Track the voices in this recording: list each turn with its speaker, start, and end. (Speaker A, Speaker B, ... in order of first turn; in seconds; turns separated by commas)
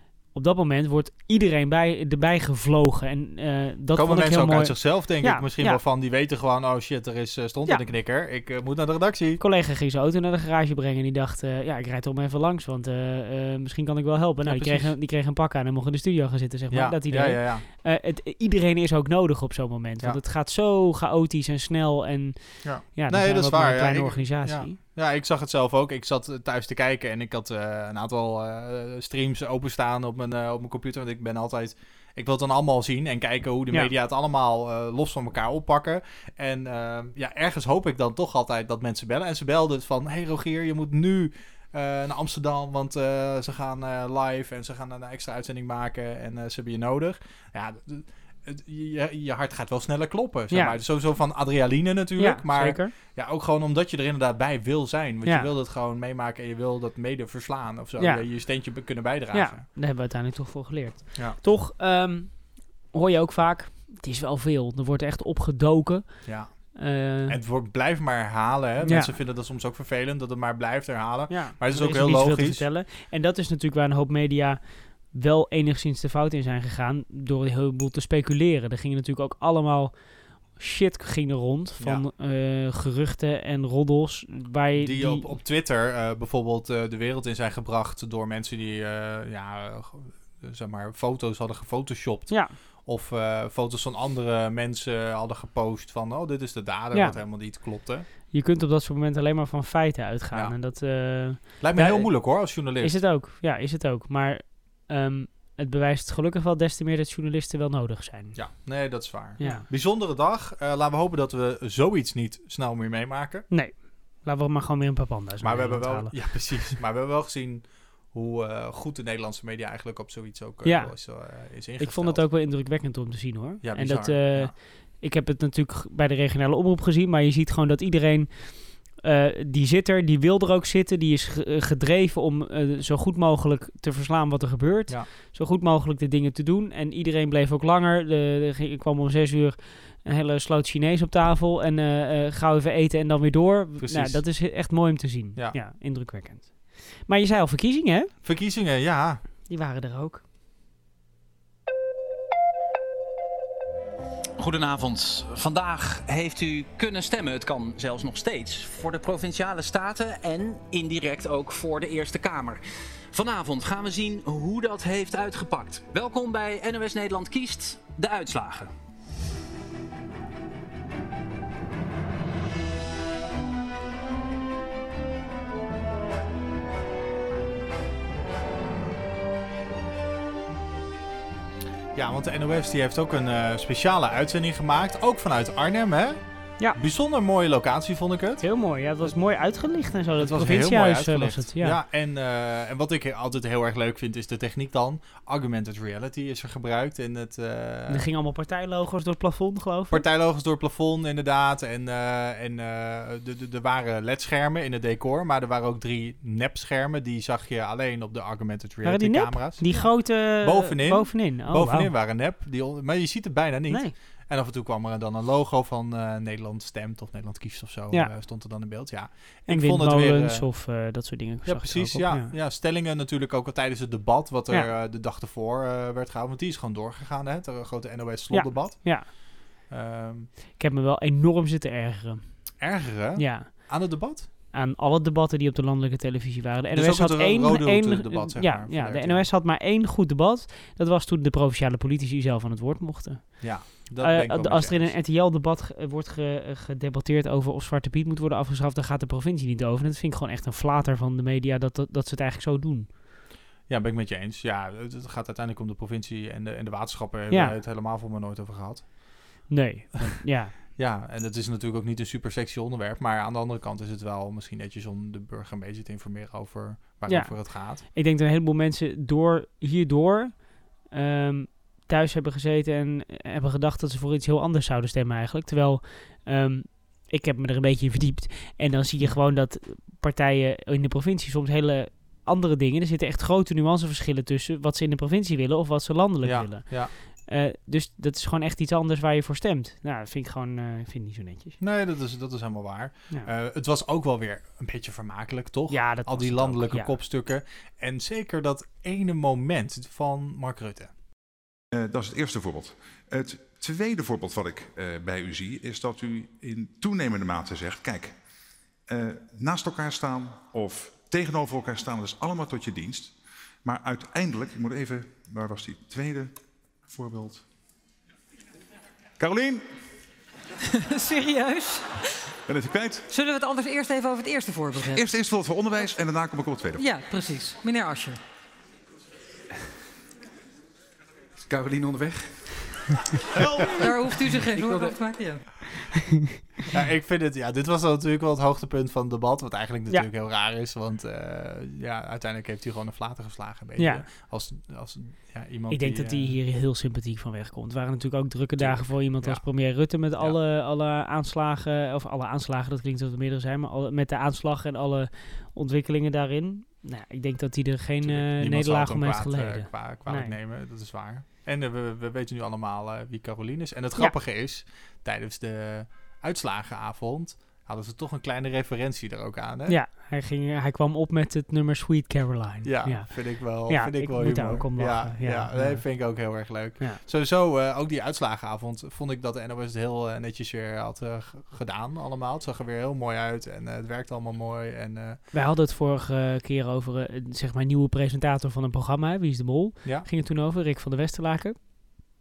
Speaker A: 0.3-5.8, Speaker B: 3.9-9.4, Speaker A: 9.4-24.8, Speaker B: 14.4-14.9, Speaker B: 16.7-17.6, Speaker B: 22.6-59.6, Speaker A: 52.2-52.9, Speaker A: 58.0-58.3, Speaker A: 59.3-67.4, Speaker B: 66.2-72.6, Speaker A: 68.8-69.1, Speaker A: 71.3-85.4, Speaker B: 81.8-82.0, Speaker B: 84.8-98.0, Speaker A: 92.3-92.5, Speaker A: 96.9-97.2, Speaker A: 98.3-108.7, Speaker B: 100.3-103.0, Speaker B: 108.3-113.5, Speaker A: 109.4-109.7, Speaker A: 113.5-116.7, Speaker B: 115.4-122.2, Speaker A: 120.6-148.1, Speaker B: 123.6-124.6, Speaker B: 143.8-144.3, Speaker B: 148.2-149.2, Speaker A: 149.5-150.2, Speaker C: 154.4-168.7, Speaker B: 181.9-186.2, Speaker B: 186.7-188.4, Speaker A: 188.4-191.8, Speaker B: 190.2-198.1, Speaker A: 197.9-200.0, Speaker B: 199.9-220.5, Speaker A: 208.8-211.9, Speaker A: 219.5-222.3, Speaker B: 221.4-230.3, Speaker A: 228.3-229.1, Speaker A: 230.6-232.5, Speaker B: 232.6-234.3, Speaker A: 233.2-233.9, Speaker A: 234.5-252.9, Speaker B: 236.7-239.2, Speaker B: 243.4-244.9, Speaker B: 253.7-267.8, Speaker A: 257.3-257.6, Speaker A: 259.5-260.5, Speaker A: 267.1-291.6, Speaker B: 286.2-286.9, Speaker B: 291.6-300.9, Speaker A: 295.7-297.0, Speaker D: 301.7-308.1, Speaker D: 308.9-316.3, Speaker D: 316.9-317.4, Speaker D: 319.2-319.6, Speaker E: 320.7-321.9, Speaker D: 322.5-323.1, Speaker E: 323.1-325.1, Speaker D: 324.8-326.9, Speaker E: 326.8-328.2, Speaker D: 331.4-332.5, Speaker D: 333.4-333.8, Speaker E: 333.6-335.4, Speaker D: 334.6-334.9, Speaker B: 336.7-346.4, Speaker A: 343.8-344.0, Speaker A: 345.7-360.3, Speaker B: 348.6-350.4, Speaker B: 358.0-369.8, Speaker A: 369.7-377.0, Speaker B: 372.6-385.2, Speaker A: 385.3-391.7